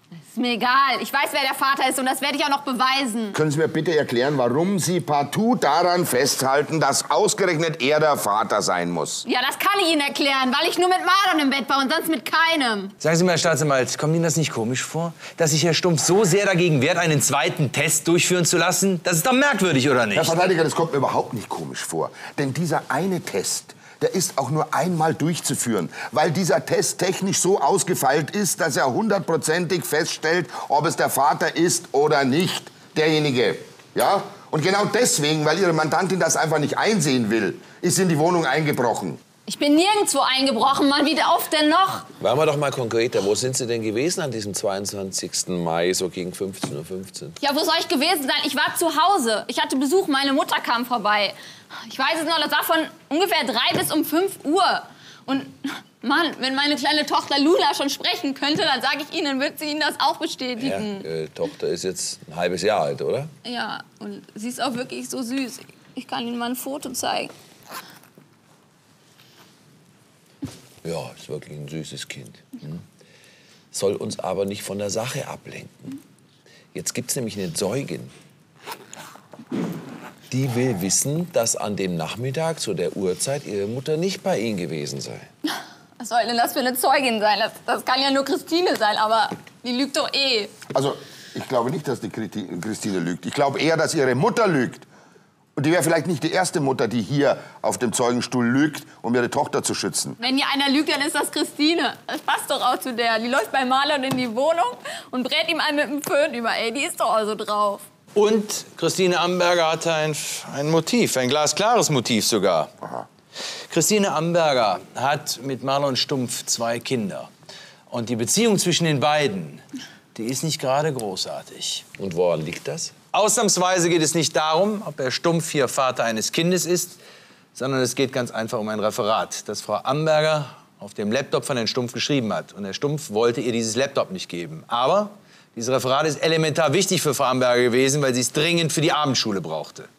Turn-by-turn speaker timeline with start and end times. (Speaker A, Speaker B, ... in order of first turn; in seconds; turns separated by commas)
Speaker A: 0.3-3.4, Speaker B: 3.3-9.2, Speaker A: 9.2-12.9, Speaker C: 13.0-20.3, Speaker B: 20.1-39.2, Speaker A: 39.5-42.1, Speaker D: 42.2-47.4, Speaker A: 47.4-61.0, Speaker D: 60.6-63.3, Speaker A: 63.4-67.3, Speaker D: 70.8-72.8, Speaker D: 73.7-76.0, Speaker D: 76.7-78.1, Speaker D: 80.3-85.3, Speaker A: 86.0-90.5, Speaker B: 90.7-94.8, Speaker B: 95.5-100.2, Speaker A: 100.2-107.8, Speaker C: 108.1-112.7, Speaker C: 113.7-117.3, Speaker C: 117.9-119.6, Speaker C: 120.1-121.8, Speaker D: 122.0-122.9, Speaker C: 123.1-127.0, Speaker C: 127.5-139.9